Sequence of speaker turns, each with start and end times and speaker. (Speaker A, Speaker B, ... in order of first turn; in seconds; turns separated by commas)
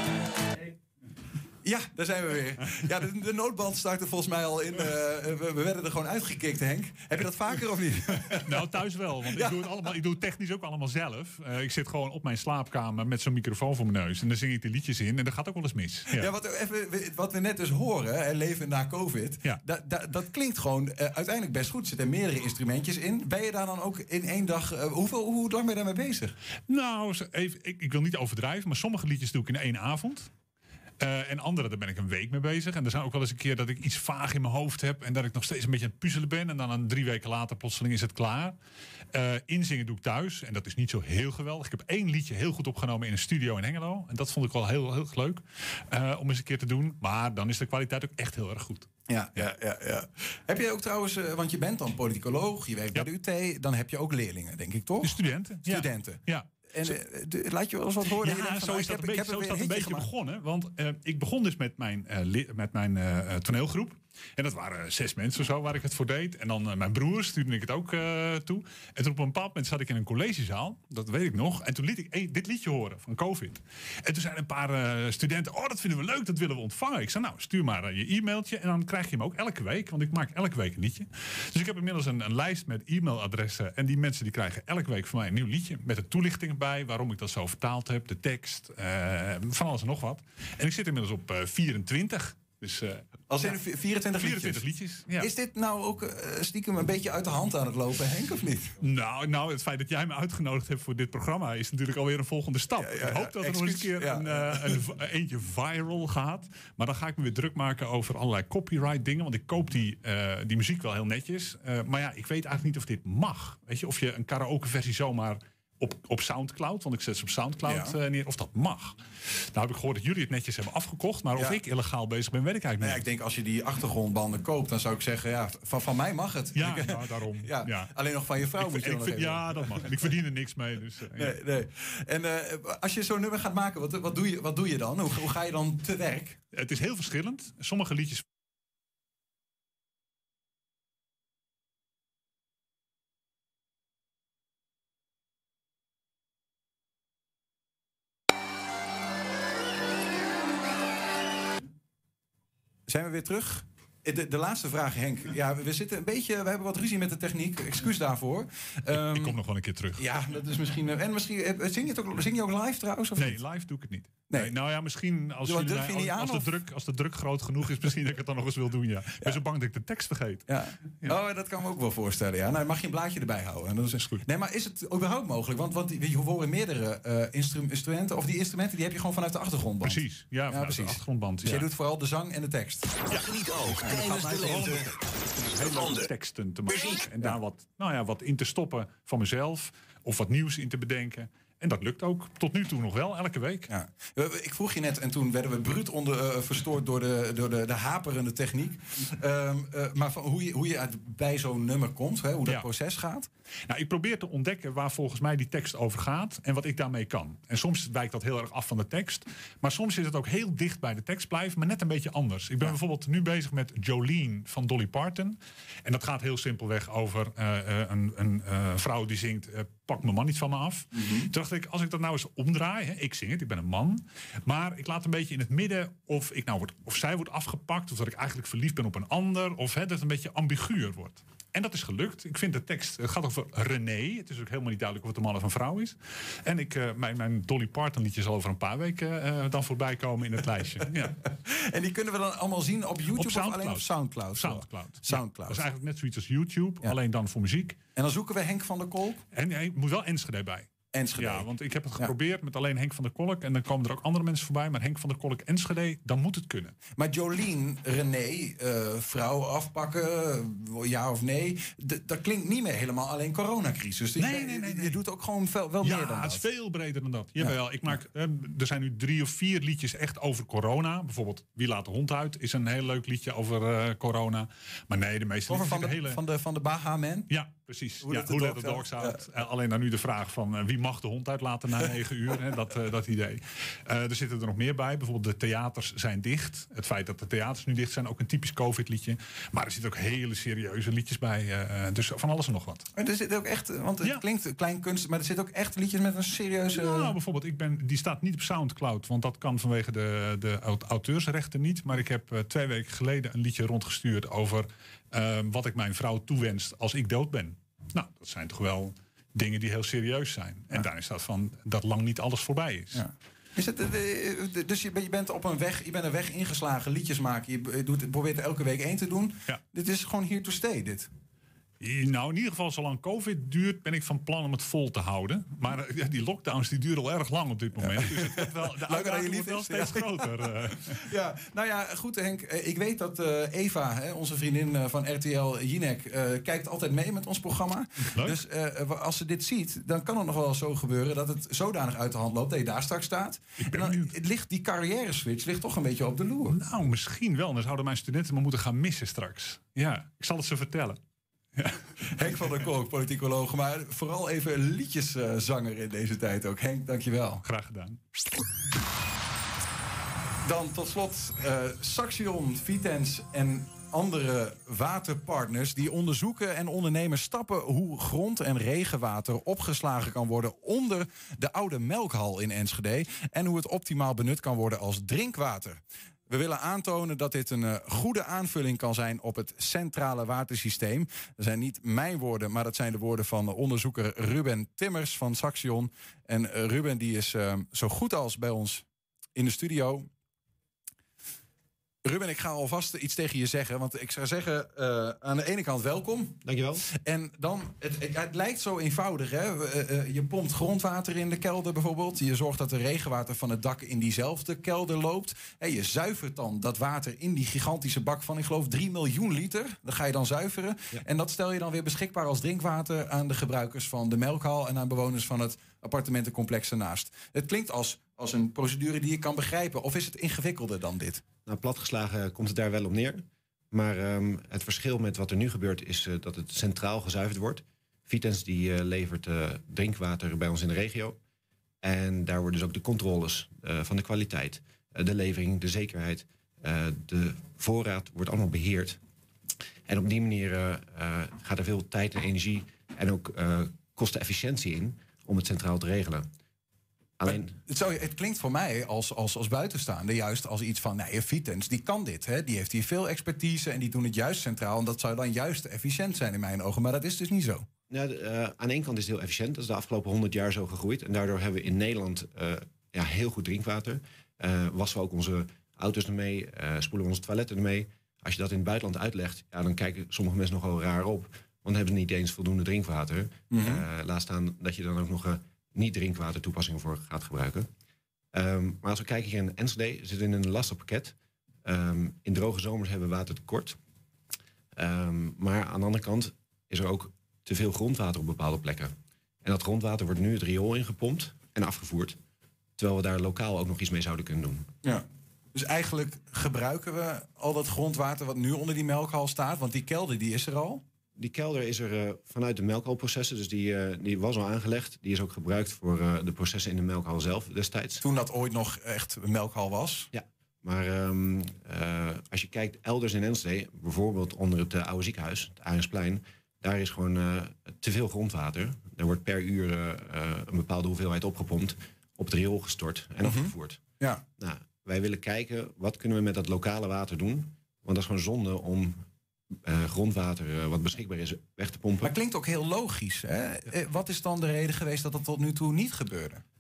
Speaker A: 1.6-8.7, Speaker B: 8.4-16.3, Speaker A: 9.3-9.7, Speaker A: 16.1-26.3, Speaker B: 26.7-30.3, Speaker B: 31.0-38.6, Speaker B: 39.1-49.4, Speaker A: 49.1-56.2, Speaker B: 55.0-56.9, Speaker A: 56.7-60.1, Speaker B: 58.0-93.6, Speaker A: 93.3-98.8, Speaker B: 94.2-95.3, Speaker B: 98.8-119.0, Speaker A: 102.8-104.8, Speaker A: 117.7-118.0, Speaker B: 119.5-123.0, Speaker A: 122.8-129.9, Speaker B: 126.5-127.9, Speaker B: 128.5-131.3, Speaker A: 131.1-136.4, Speaker B: 136.5-138.2, Speaker A: 152.9-159.4, Speaker B: 159.0-160.1, Speaker A: 160.0-163.4, Speaker B: 163.2-170.4, Speaker A: 164.3-164.6, Speaker A: 165.4-166.5, Speaker A: 170.5-183.0, Speaker B: 174.0-174.3, Speaker B: 179.8-181.7, Speaker C: 183.1-185.0, Speaker A: 183.8-184.9, Speaker B: 183.9-193.7, Speaker C: 185.7-186.1, Speaker C: 186.7-187.1, Speaker A: 193.7-203.3, Speaker B: 203.7-241.2, Speaker A: 221.0-221.3, Speaker A: 241.3-245.7, Speaker B: 243.1-247.8, Speaker A: 248.0-249.2, Speaker B: 249.3-256.8, Speaker A: 250.9-251.5, Speaker A: 257.0-266.4, Speaker B: 264.2-265.0, Speaker B: 265.8-276.2, Speaker A: 275.5-277.3, Speaker B: 277.3-292.9, Speaker A: 278.0-279.2, Speaker A: 292.9-297.2, Speaker B: 296.7-313.1, Speaker A: 312.9-321.1, Speaker B: 321.8-331.0, Speaker A: 327.8-346.6, Speaker B: 338.1-338.4, Speaker B: 343.6-344.1, Speaker B: 346.5-351.0, Speaker A: 352.1-357.4, Speaker B: 357.4-358.0, Speaker A: 360.4-390.1, Speaker A: 392.1-421.2, Speaker D: 396.4-396.8, Speaker D: 421.5-431.2, Speaker D: 431.8-439.0, Speaker D: 439.9-446.3, Speaker D: 447.2-447.5, Speaker A: 447.3-457.7, Speaker D: 457.9-477.7, Speaker A: 473.5-473.8, Speaker D: 478.3-483.8, Speaker D: 484.8-488.9, Speaker D: 489.4-492.2, Speaker D: 492.8-494.7, Speaker A: 494.8-500.8, Speaker D: 501.2-508.0, Speaker A: 508.0-510.1, Speaker D: 510.1-523.8, Speaker A: 523.2-524.2, Speaker D: 524.4-529.0, Speaker D: 529.6-532.1, Speaker A: 532.0-536.4